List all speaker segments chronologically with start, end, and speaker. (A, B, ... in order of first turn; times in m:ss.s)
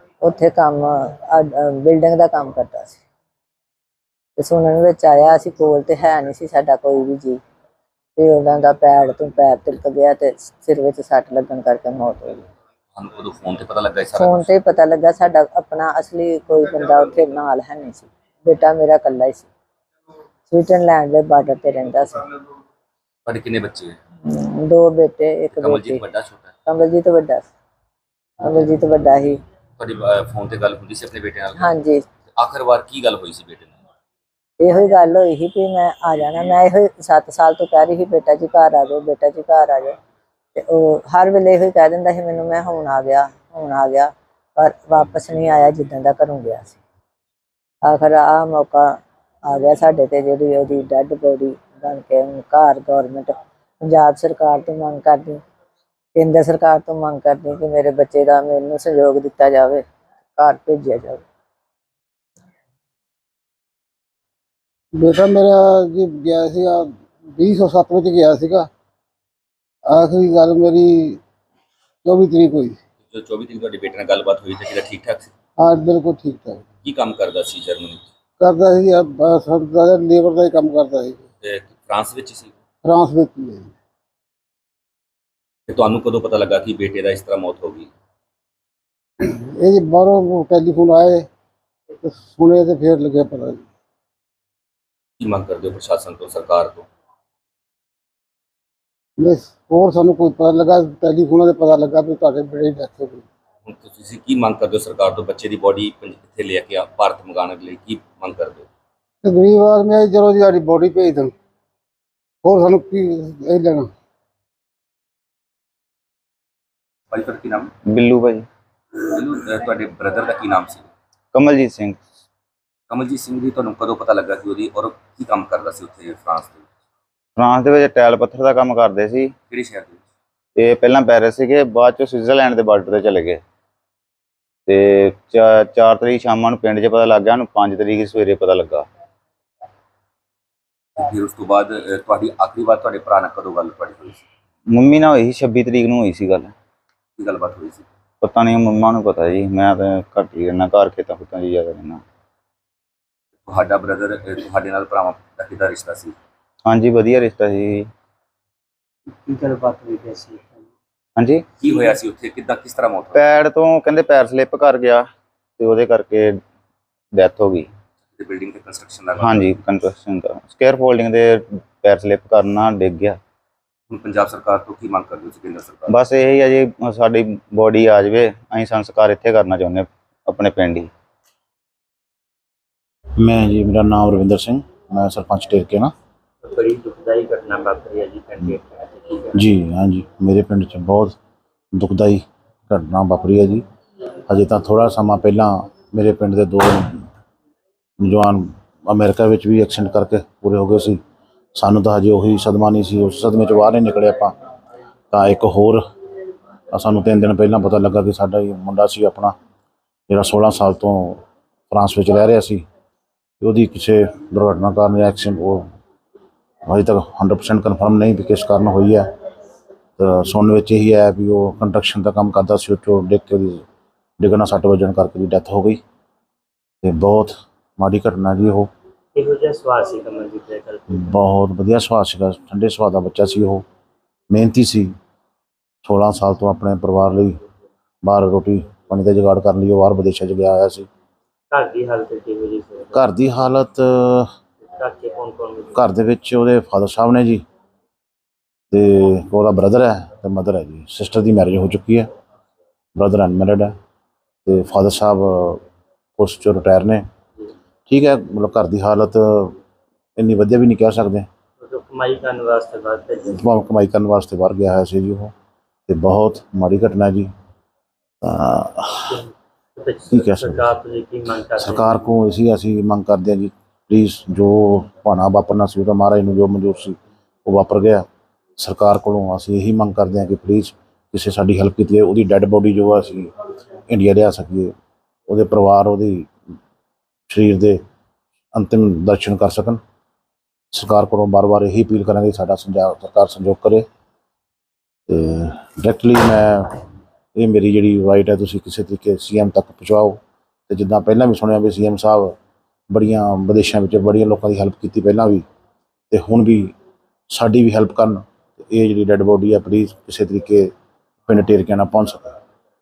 0:00.2-0:03.0 A
0:04.4-0:07.4 A
0:08.2-0:12.4 A
0:13.0-0:14.5 B
0:14.1-0:19.5 A
0:20.5-0:22.2 A
0:23.2-0:24.0 B
0:24.2-0:26.0 A
0:25.6-0:26.5 B
0:26.6-0:27.5 A
0:28.4-0:29.4 A
0:29.8-0:31.7 B
0:31.6-0:32.0 A
0:32.3-0:33.7 B
0:34.6-0:40.0 A
0:40.5-0:46.8 A
0:47.8-0:55.4 A
0:56.1-0:59.8 A
1:00.4-1:01.2 A
1:04.9-1:08.7 C
1:09.8-1:11.2 C
1:12.0-1:12.8 C
1:13.0-1:15.3 B
1:15.6-1:16.6 C
1:16.8-1:18.0 B
1:18.4-1:21.2 C
1:21.4-1:22.5 B
1:22.8-1:23.7 C
1:25.7-1:27.9 B
1:29.2-1:31.3 C
1:31.9-1:33.6 C
1:35.2-1:36.9 B
1:39.2-1:43.2 C
1:43.6-1:48.7 B
1:49.2-1:51.3 C
1:52.4-1:53.9 C
1:57.1-1:57.7 B
1:57.9-1:58.4 D
1:59.0-2:00.9 B
2:01.3-2:02.0 D
2:02.9-2:06.6 B
2:07.4-2:09.3 D
2:09.5-2:10.0 B
2:10.6-2:13.4 D
2:14.7-2:18.8 D
2:21.0-2:24.2 B
2:24.7-2:26.5 D
2:27.2-2:27.8 B
2:28.2-2:32.0 D
2:33.4-2:36.2 B
2:36.6-2:37.9 D
2:39.1-2:40.7 E
2:41.2-2:41.4 D
2:41.6-2:43.3 B
2:43.1-2:45.1 D
2:45.6-2:46.4 D
2:47.1-2:47.7 D
2:48.2-2:49.5 B
2:49.2-2:53.2 D
2:53.9-2:56.0 B
2:55.9-3:00.9 D
3:03.2-3:05.9 F
3:06.4-3:09.4 E
3:09.3-3:11.2 F
3:11.7-3:13.6 F
3:14.3-3:17.1 F
3:18.0-3:21.0 F
3:21.6-3:24.3 F
3:25.1-3:25.8 F
3:26.7-3:29.3 F
3:30.1-3:32.6 F
3:33.4-3:35.6 F
3:36.6-3:39.1 F
3:40.0-3:43.6 F
3:44.2-3:45.8 F
3:46.8-3:48.7 F
3:49.1-3:51.1 E
3:50.9-3:53.6 F
3:54.3-3:54.9 F
3:55.8-3:57.4 F
3:58.0-4:00.9 F
4:01.5-4:03.0 E
4:02.9-4:04.3 F
4:04.6-4:05.8 E
4:05.7-4:07.4 F
4:08.7-4:12.1 F
4:13.0-4:13.7 F
4:14.4-4:15.6 F
4:16.2-4:17.0 F
4:17.9-4:19.6 F
4:20.2-4:21.3 F
4:21.6-4:23.4 E
4:23.3-4:25.3 F
4:25.9-4:27.3 F
4:28.2-4:29.2 F
4:29.1-4:32.0 E
4:30.1-4:30.7 F
4:31.6-4:38.0 F
4:38.6-4:43.3 F
4:43.9-4:44.7 F
4:45.3-4:46.3 F
4:47.3-4:47.8 F
4:48.5-4:49.8 F
4:50.7-4:53.8 F
4:55.1-4:56.7 F
4:57.4-5:02.4 F
5:02.9-5:05.4 F
5:06.1-5:06.7 F
5:07.3-5:10.7 F
5:11.3-5:12.3 F